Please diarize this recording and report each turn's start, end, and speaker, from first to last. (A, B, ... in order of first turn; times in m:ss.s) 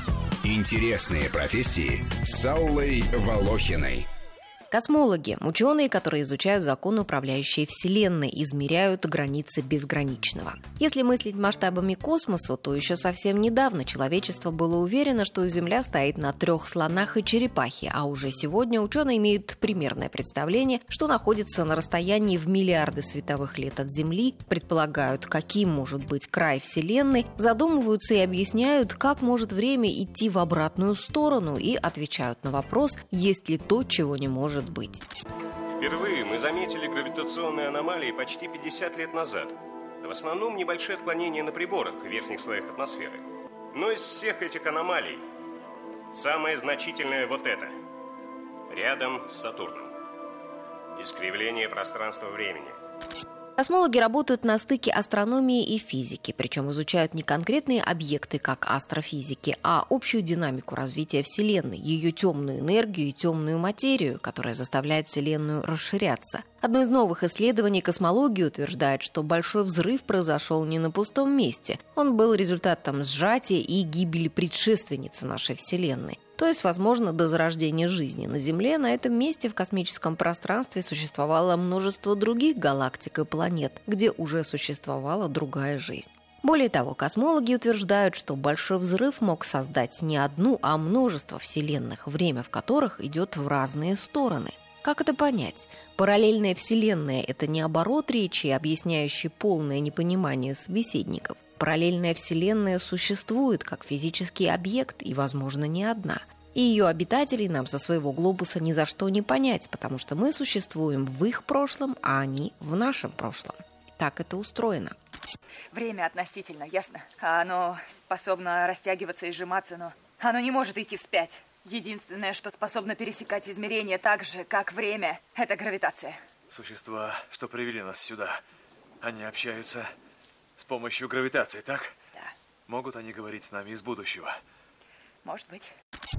0:00.4-0:04.1 A
0:04.7-0:35.0 B
0:35.8-0:45.2 C
0:46.1-0:47.7 C
0:48.7-0:49.9 C
0:51.0-0:52.8 C
0:53.6-1:55.0 B
1:55.7-2:06.2 D
2:06.5-2:08.4 E
2:09.0-2:09.9 E
2:10.6-2:11.9 E
2:12.7-2:14.4 E
2:15.2-2:15.7 D